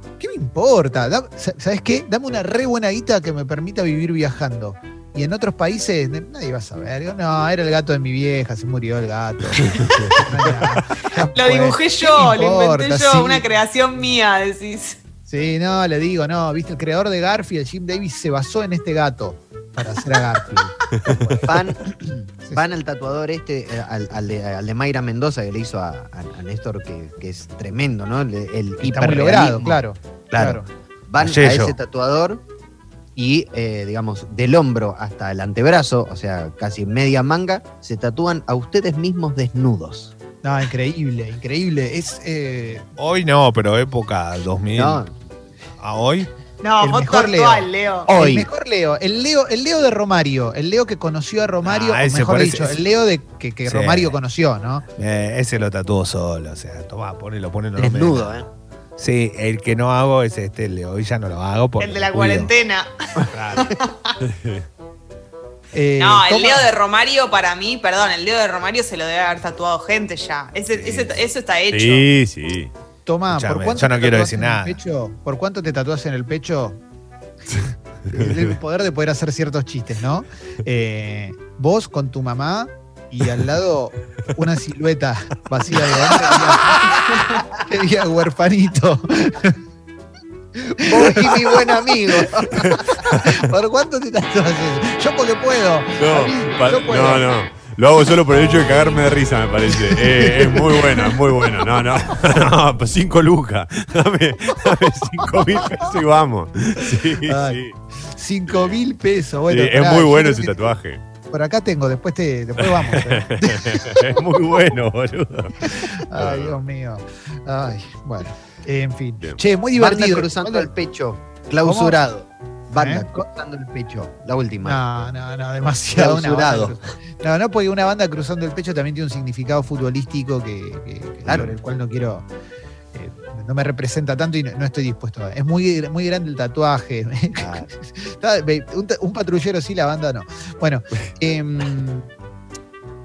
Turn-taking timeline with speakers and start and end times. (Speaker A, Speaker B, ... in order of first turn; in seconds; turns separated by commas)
Speaker A: 0.2-13.5, Speaker B: 11.2-15.0, Speaker A: 15.3-21.6, Speaker C: 21.4-29.8, Speaker A: 28.8-30.7, Speaker D: 30.3-30.6, Speaker C: 31.1-32.4, Speaker D: 31.2-31.8, Speaker C: 33.2-40.1, Speaker A: 40.4-42.9, Speaker D: 43.0-45.0, Speaker C: 44.7-45.1, Speaker D: 45.8-46.3, Speaker B: 46.6-48.1, Speaker A: 46.8-54.9, Speaker C: 48.1-48.5, Speaker D: 51.6-52.8, Speaker D: 53.6-54.1, Speaker D: 55.0-62.5, Speaker C: 57.8-58.5, Speaker B: 61.8-64.2, Speaker D: 63.3-63.7, Speaker E: 64.2-64.6, Speaker A: 65.7-66.7, Speaker B: 66.0-72.1, Speaker D: 70.8-71.1, Speaker E: 71.7-72.7, Speaker A: 73.1-76.8, Speaker D: 73.3-74.8, Speaker A: 78.1-89.6, Speaker A: 90.6-97.3, Speaker C: 90.8-92.8, Speaker E: 92.6-93.4, Speaker E: 96.0-107.8, Speaker A: 99.9-101.6, Speaker A: 107.3-110.6, Speaker E: 109.5-111.0, Speaker A: 111.3-114.2, Speaker E: 112.6-116.6, Speaker A: 115.6-120.7, Speaker C: 119.8-124.8, Speaker A: 121.6-122.0, Speaker A: 122.8-123.2, Speaker A: 124.6-132.3, Speaker C: 125.9-126.8, Speaker C: 131.2-131.6, Speaker A: 132.9-142.1, Speaker C: 137.4-137.7